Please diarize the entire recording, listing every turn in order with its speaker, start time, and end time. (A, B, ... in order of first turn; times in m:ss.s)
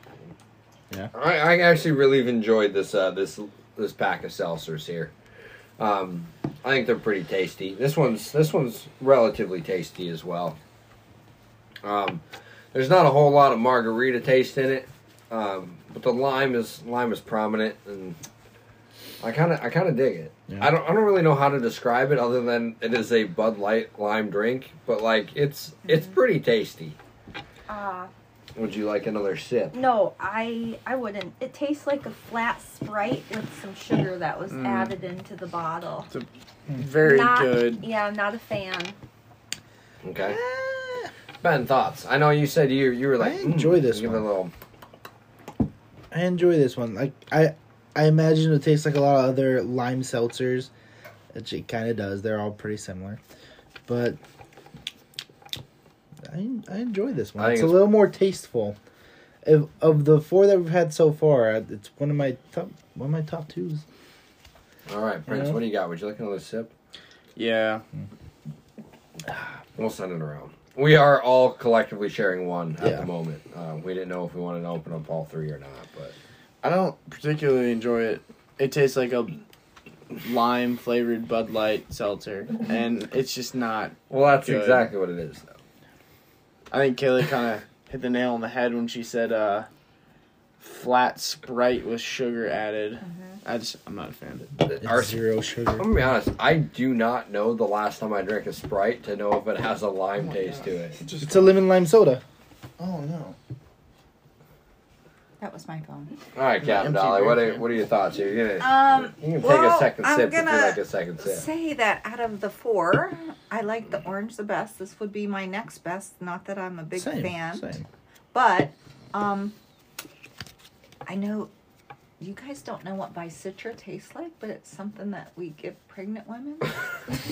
0:01.1-0:05.1 A
0:05.8-0:10.6 A
0:11.8-0:18.2 A
0:19.2-0:27.0 A
0:27.7-0:28.1 B
0:28.6-0:29.8 A
0:29.7-0:36.1 B
0:34.5-0:34.9 C
0:36.1-0:37.8 C
0:37.0-0:39.0 B
0:40.0-0:40.4 A
0:40.3-0:41.1 D
0:41.4-0:44.5 A
0:43.2-0:44.3 D
0:46.1-0:50.7 D
0:51.3-0:53.2 D
0:53.9-0:54.2 D
0:56.2-0:58.8 D
0:57.4-0:57.9 A
0:59.4-1:03.8 D
1:04.9-1:06.7 A
1:05.3-1:05.6 D
1:07.4-1:07.8 C
1:09.8-1:16.1 A
1:12.8-1:13.0 D
1:16.6-1:19.4 C
1:20.2-1:24.9 C
1:24.1-1:25.6 A
1:26.7-1:29.7 C
1:30.6-1:34.5 C
1:33.1-1:33.3 B
1:34.6-1:35.2 A
1:34.8-1:35.9 D
1:35.8-1:41.0 A
1:40.2-1:41.6 C
1:41.2-1:42.2 D
1:42.8-1:43.4 C
1:45.4-1:46.1 E
1:46.3-1:51.4 A
1:46.6-1:47.6 C
1:48.6-1:57.6 E
1:57.0-1:57.8 D
1:58.3-1:59.5 E
2:01.0-2:01.5 E
2:02.2-2:06.8 E